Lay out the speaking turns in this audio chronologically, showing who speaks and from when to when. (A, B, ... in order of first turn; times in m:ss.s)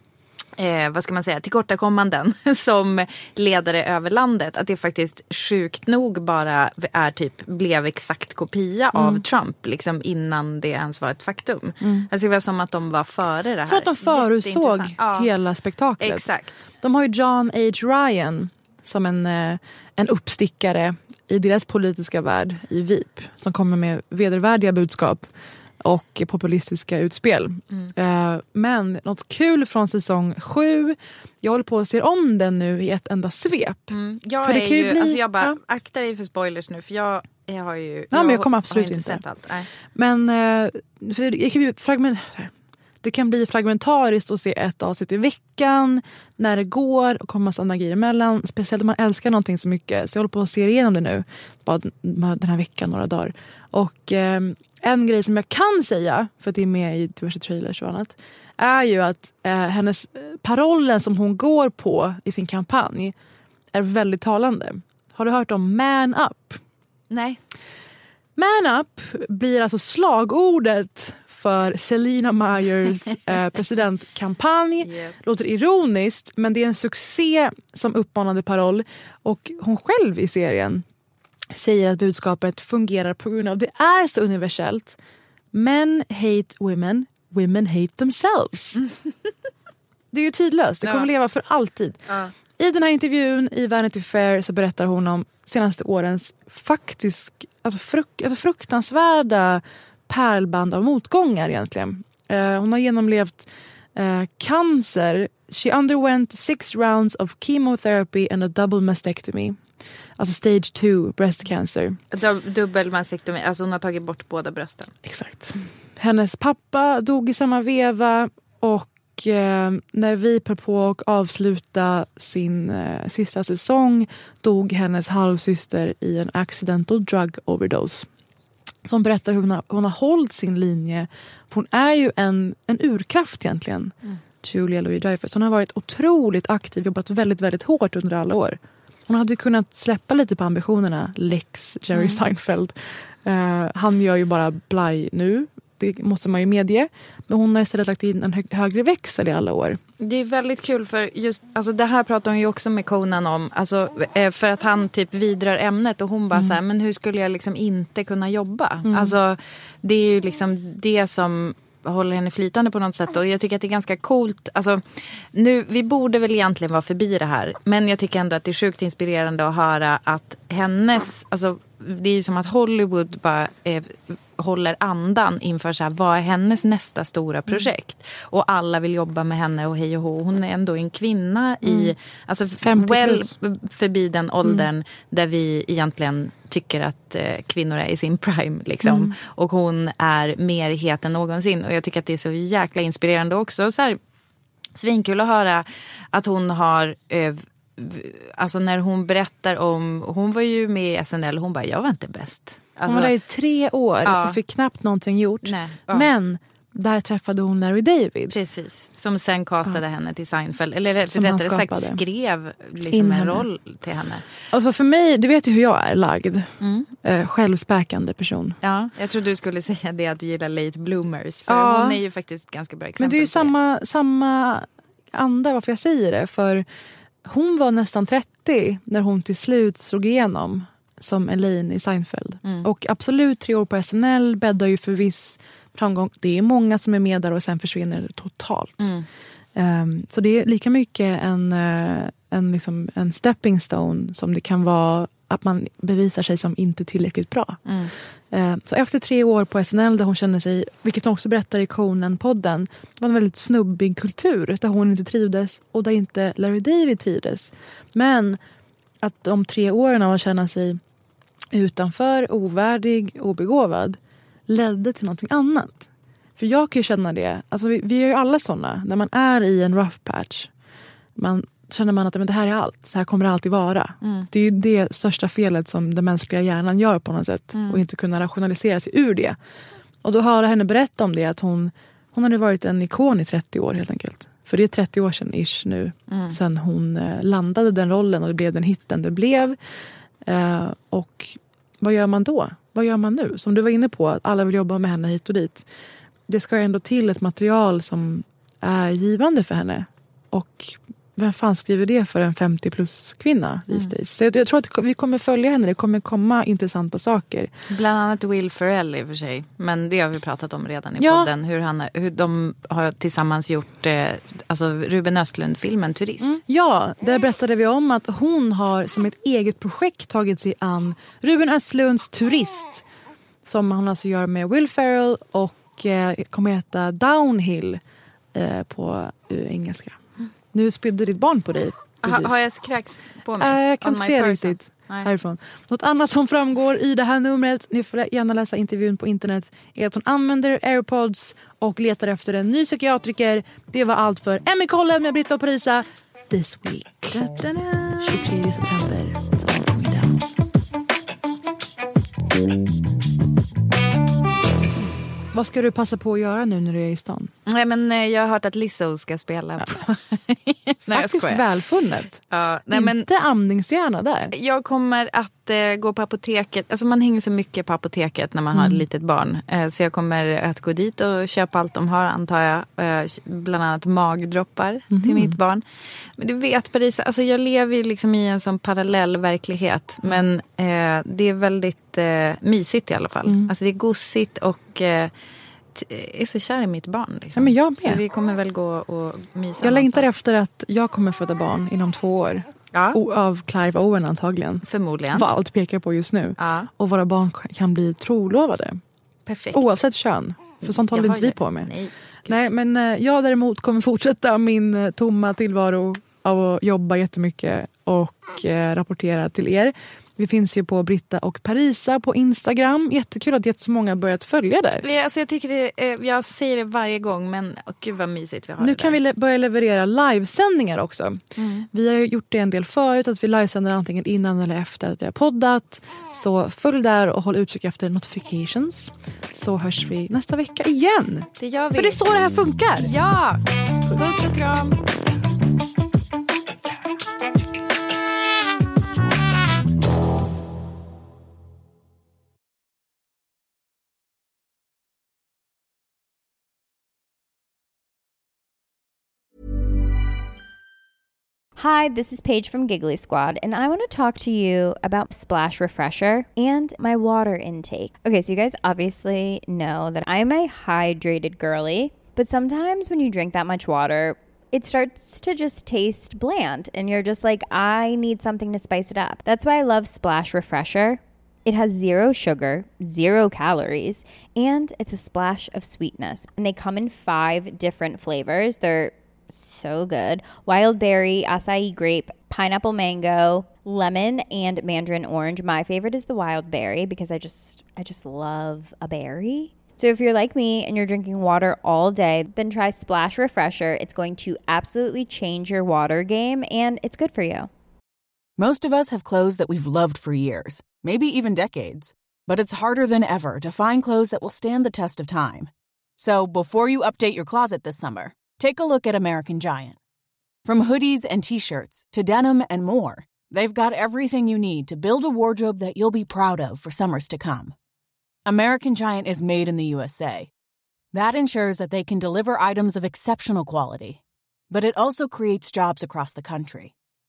0:00.6-0:15.3 A
0:08.9-0:09.2 B
0:11.8-0:12.1 B
0:13.7-0:16.2 B
0:16.0-0:16.6 A
0:16.8-0:25.3 B
0:25.8-0:35.6 B
0:33.9-0:39.7 A
0:38.1-0:39.2 B
0:40.0-1:03.2 B
1:03.7-1:06.6 B
1:07.1-1:07.4 A
1:08.4-1:20.8 B
1:14.8-1:15.2 A
1:21.5-1:25.0 B
1:25.5-1:28.8 B
1:30.1-1:32.0 B
1:32.1-1:32.3 A
1:32.6-1:49.6 B
1:50.2-1:52.0 B
1:52.1-1:54.9 A
1:55.0-2:08.1 B
2:08.8-2:29.8 B
2:21.9-2:22.2 A
2:30.0-3:14.0 A
2:36.3-2:36.6 B
2:38.8-2:39.2 B
3:01.6-3:01.9 B
3:02.6-3:03.4 B
3:08.8-3:09.1 B
3:14.8-3:23.1 A
3:22.8-3:28.4 B
3:24.0-3:24.4 A
3:25.4-3:26.1 A
3:28.3-3:34.2 A
3:31.1-3:32.0 B
3:32.9-3:33.5 B
3:34.5-3:36.5 B
3:36.6-3:36.9 A
3:37.0-3:38.6 B
3:38.6-3:43.5 A
3:41.5-3:42.0 B
3:43.0-3:46.6 B
3:47.2-3:58.9 B
3:58.8-3:59.1 A
3:59.6-4:07.6 B
4:07.7-4:07.9 A
4:08.3-4:18.4 B
4:19.0-4:20.8 B
4:21.5-4:30.5 B
4:31.2-4:39.4 B
4:34.0-4:34.3 A
4:37.6-4:37.8 A
4:40.0-4:49.6 B
4:46.1-4:46.4 A
4:50.2-4:55.7 B
4:56.3-5:07.5 B
5:07.7-5:16.4 A
5:11.0-5:11.3 B
5:16.2-5:22.8 B
5:23.4-5:27.8 B
5:28.3-5:30.0 B
5:30.5-5:32.4 B
5:32.0-5:35.1 A
5:33.4-5:50.2 B
5:47.2-5:48.2 A
5:55.3-5:57.3 B
5:57.5-6:01.4 A
5:59.6-6:00.0 B
6:00.9-6:04.3 B
6:02.3-6:03.1 A
6:04.3-6:15.6 A
6:08.5-6:08.8 B
6:14.9-6:15.4 B
6:16.2-6:25.1 A
6:23.2-6:23.5 B
6:25.7-6:30.1 A
6:27.4-6:28.0 B
6:29.6-6:38.8 B
6:32.7-6:33.0 A
6:34.7-6:35.3 A
6:36.4-6:36.7 A
6:39.3-6:39.6 A
6:39.5-6:41.7 B
6:40.6-6:42.4 A
6:42.3-6:54.9 B
6:54.8-6:59.0 A
6:58.6-7:12.9 B
7:01.4-7:01.7 A
7:11.4-7:12.0 A
7:12.8-7:14.8 A
7:31.6-8:17.5 C
8:18.4-8:29.8 D
8:30.4-8:37.6 D
8:38.2-8:40.3 D
8:40.9-8:46.7 D